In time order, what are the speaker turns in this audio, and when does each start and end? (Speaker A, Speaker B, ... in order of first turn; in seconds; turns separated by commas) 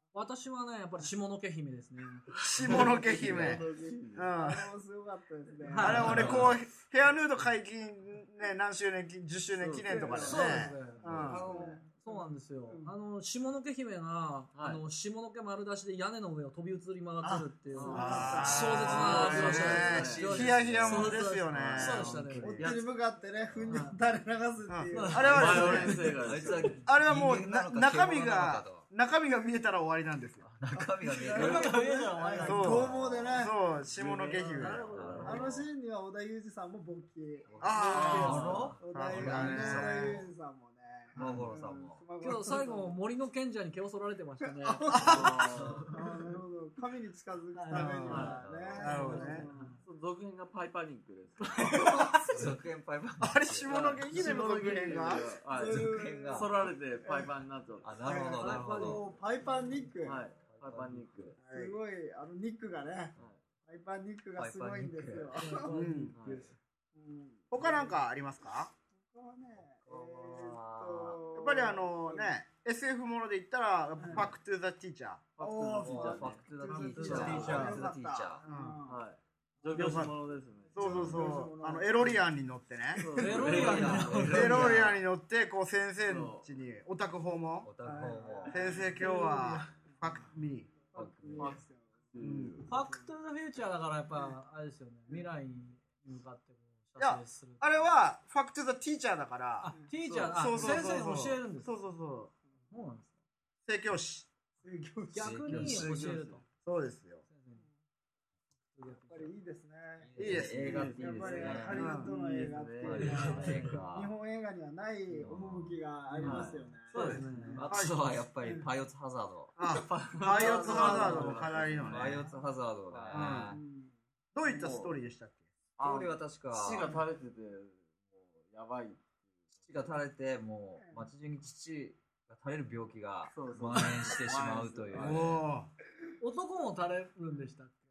Speaker A: 0.1-2.3, Speaker B: 2.5-4.7, Speaker C: 2.5-4.3, Speaker D: 4.3-6.3, Speaker A: 5.6-6.4, Speaker B: 5.8-11.5, Speaker E: 6.0-6.5, Speaker C: 6.1-6.4, Speaker C: 9.6-10.5, Speaker D: 9.9-12.9, Speaker A: 10.2-22.6, Speaker C: 11.1-11.8, Speaker C: 14.5-14.8, Speaker D: 17.2-19.1, Speaker C: 17.7-20.2, Speaker B: 17.9-22.8, Speaker E: 18.4-22.9, Speaker D: 22.4-26.1, Speaker E: 23.5-23.8, Speaker A: 23.7-23.9, Speaker B: 24.7-26.1, Speaker A: 24.9-26.1, Speaker C: 25.2-26.8, Speaker E: 26.2-28.9, Speaker B: 26.8-30.4, Speaker E: 30.4-31.8, Speaker D: 30.7-33.5, Speaker A: 31.1-32.9, Speaker B: 32.4-35.1, Speaker E: 32.7-33.5, Speaker C: 33.8-35.4, Speaker A: 34.5-35.6, Speaker E: 34.9-35.7, Speaker D: 35.2-43.0, Speaker E: 37.5-40.3, Speaker B: 37.6-40.2, Speaker C: 37.8-38.7, Speaker A: 37.9-38.7, Speaker B: 41.2-41.5, Speaker E: 41.2-42.0, Speaker A: 42.2-44.9, Speaker D: 44.6-49.8, Speaker B: 44.9-45.3, Speaker C: 45.0-45.9, Speaker E: 45.4-45.9, Speaker A: 47.5-49.8, Speaker B: 47.7-49.5, Speaker C: 48.1-48.4, Speaker E: 48.1-49.2, Speaker C: 49.8-51.9, Speaker D: 51.6-52.5, Speaker E: 52.3-53.7, Speaker B: 53.2-55.3, Speaker C: 53.6-58.0, Speaker D: 55.5-56.5, Speaker E: 55.5-56.5, Speaker D: 57.0-57.3, Speaker E: 57.8-59.1, Speaker D: 58.0-60.3, Speaker A: 58.3-59.0, Speaker C: 60.0-61.4, Speaker E: 60.3-61.4, Speaker B: 61.4-61.8, Speaker D: 61.5-63.1, Speaker D: 63.7-65.7, Speaker E: 64.3-65.4, Speaker A: 65.3-66.0, Speaker C: 65.7-66.5, Speaker B: 65.7-66.2, Speaker D: 66.9-68.0, Speaker B: 67.5-68.7, Speaker D: 69.1-72.3, Speaker E: 69.8-71.2, Speaker B: 71.3-75.3, Speaker D: 74.0-74.3, Speaker C: 75.4-77.8, Speaker D: 75.4-79.0, Speaker E: 75.8-78.4, Speaker B: 77.4-77.7, Speaker B: 78.4-78.8, Speaker C: 78.9-80.8, Speaker D: 79.6-80.1, Speaker B: 79.7-80.1, Speaker D: 80.7-82.2, Speaker B: 80.7-83.1, Speaker E: 80.8-81.2, Speaker C: 83.0-85.0, Speaker D: 83.2-83.5, Speaker A: 83.2-84.8, Speaker E: 83.4-85.0, Speaker B: 84.2-87.7, Speaker C: 86.0-86.5, Speaker E: 87.6-88.9, Speaker D: 87.8-90.3, Speaker B: 88.5-90.9, Speaker D: 90.9-93.1, Speaker E: 90.9-91.6, Speaker C: 91.4-92.8, Speaker B: 92.2-92.6, Speaker A: 92.7-97.9, Speaker B: 97.0-102.3, Speaker A: 99.6-101.7, Speaker A: 102.7-103.1, Speaker B: 103.7-104.3, Speaker D: 104.6-105.7, Speaker A: 105.1-106.4, Speaker E: 105.2-106.1, Speaker C: 105.6-106.4, Speaker B: 106.6-107.2, Speaker A: 107.3-107.7, Speaker A: 108.7-109.3, Speaker D: 109.0-117.7, Speaker E: 110.0-112.0, Speaker B: 110.2-110.9, Speaker C: 110.4-113.8, Speaker B: 111.7-112.1, Speaker E: 112.8-114.1, Speaker A: 113.0-113.6, Speaker E: 115.1-119.6, Speaker C: 116.2-116.6, Speaker A: 116.9-117.6, Speaker B: 117.0-118.0, Speaker D: 118.4-118.7, Speaker B: 119.6-122.3, Speaker C: 119.7-122.3, Speaker A: 120.4-121.4, Speaker E: 120.7-123.6, Speaker C: 122.9-123.4, Speaker B: 123.1-123.6, Speaker D: 123.5-123.9, Speaker B: 124.3-125.5, Speaker C: 124.4-125.0, Speaker E: 125.8-127.0, Speaker C: 125.8-130.0, Speaker E: 129.7-135.5, Speaker D: 130.8-131.1, Speaker C: 133.3-135.3, Speaker A: 133.7-134.1, Speaker B: 134.9-135.7, Speaker A: 136.2-137.8